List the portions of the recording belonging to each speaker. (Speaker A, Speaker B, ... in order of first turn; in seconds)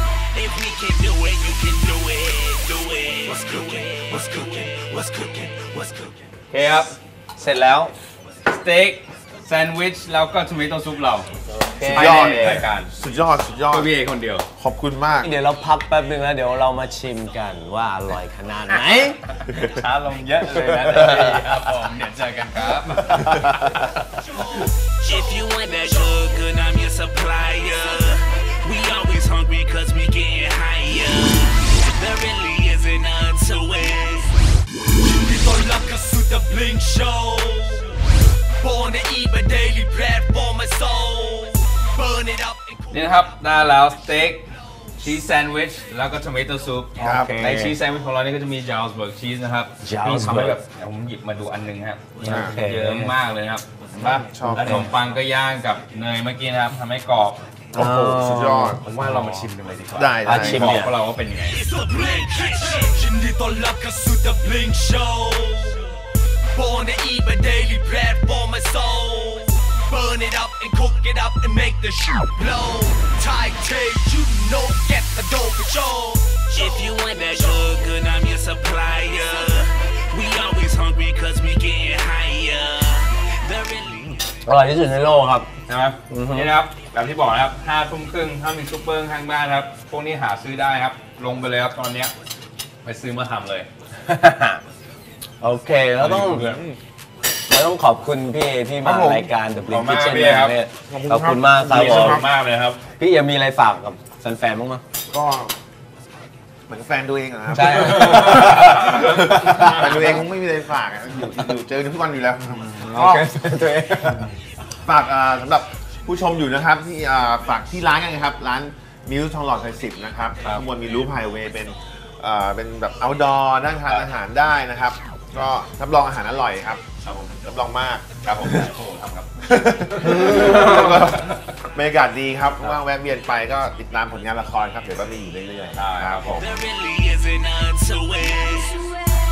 Speaker A: 0.3-6.1, 25.0-34.4, 36.9-37.5, 42.0-42.6, 62.1-62.5, 76.4-84.2, 136.3-138.9
Speaker B: 6.5-7.0, 8.4-11.3, 11.8-12.9, 13.7-14.5, 19.5-24.0, 42.9-44.5, 45.0-57.4, 58.8-61.6, 85.7-92.1, 92.8-93.7, 96.0-96.6, 99.7-100.6, 101.6-102.8, 107.7-110.0, 127.0-127.4, 128.2-129.3, 129.9-131.3, 135.7-136.6
Speaker C: 7.4-7.9, 11.5-12.7, 15.2-19.2, 20.6-21.5, 47.0-47.8, 49.8-50.6, 52.2-53.1, 54.3-54.9, 57.7-59.5, 60.2-61.0, 84.4-85.5, 86.1-86.5, 94.0-94.6, 95.4-96.6, 97.5-102.2, 103.0-104.8, 107.5-110.2, 112.5-114.3
Speaker D: 11.9-13.9, 14.6-15.3, 47.0-47.3, 52.2-52.6, 54.0-55.2, 57.7-58.8, 60.0-60.8, 96.2-96.8, 98.8-99.3, 100.9-102.3, 105.1-105.5, 106.7-113.2, 114.8-126.8, 127.4-128.2, 129.4-136.6
Speaker E: 35.0-38.0, 38.6-42.7, 61.5-66.0, 66.5-76.4